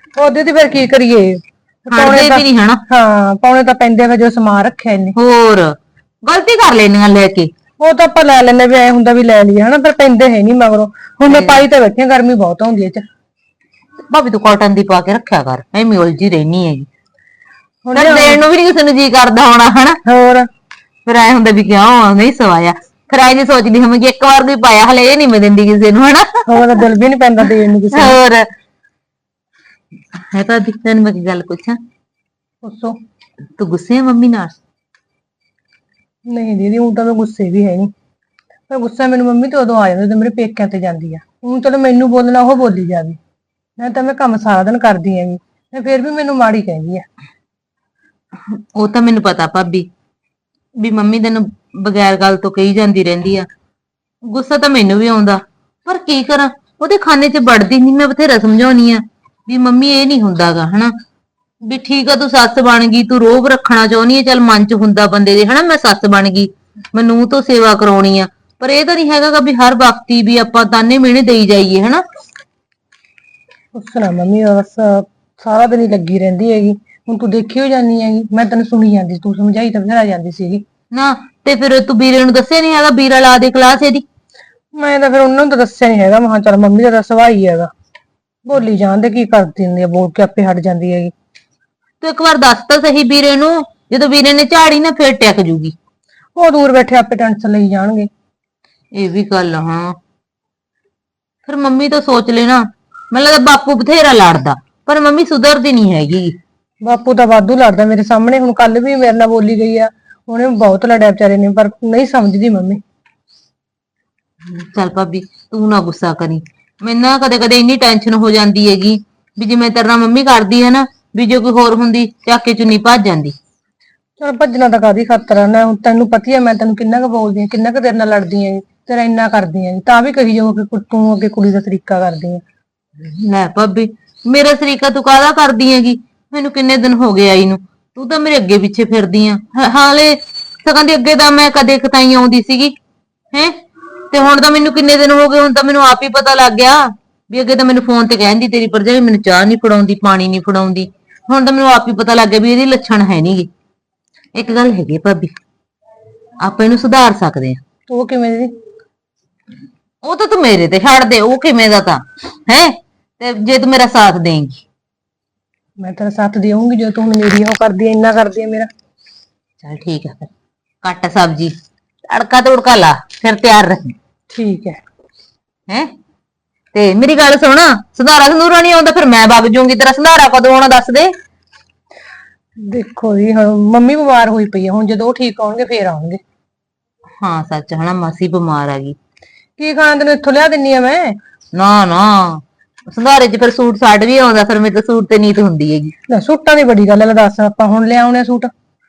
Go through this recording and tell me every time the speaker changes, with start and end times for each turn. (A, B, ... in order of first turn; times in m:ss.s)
0:00.2-0:05.2 A
0:01.9-0:02.8 B
0:05.2-0:07.5 B
0:07.8-0:13.0 A
0:11.3-0:11.6 B
0:14.1-0:16.9 B
0:17.8-0:18.4 A
0:17.9-0:20.0 B
0:20.0-0:20.5 A
0:21.0-0:26.7 B
0:26.5-0:28.2 A
0:27.9-0:28.4 B
0:30.2-0:31.8 B
0:32.6-0:33.0 A
0:33.6-0:34.6 B
0:36.3-0:37.9 A
0:38.7-0:43.2 A
0:43.8-0:47.1 A
0:48.4-0:49.9 B
0:50.8-0:53.5 B
0:54.3-1:00.9 B
1:01.6-1:12.0 B
1:13.7-1:20.6 A
1:20.9-1:24.0 B
1:24.8-1:27.7 A
1:28.4-1:31.1 A
1:32.0-1:35.7 B
1:36.4-1:38.1 A
1:38.9-1:40.0 B
1:41.4-1:46.4 B
1:46.8-1:52.8 A
1:54.4-2:03.3 B
2:04.2-2:12.4 A
2:13.0-2:22.7 B
2:24.1-2:33.5 B
2:34.3-2:35.3 B
2:36.4-2:37.6 B
2:37.9-2:38.5 A
2:40.0-2:44.6 B
2:45.8-2:48.7 A
2:49.6-2:50.3 B
2:50.8-2:51.5 B
2:52.1-2:54.0 B
2:54.3-2:54.8 A
2:56.7-3:01.1 B
3:02.6-3:06.2 A
3:07.2-3:09.0 B
3:09.6-3:11.2 A
3:11.5-3:15.9 B
3:16.1-3:18.5 A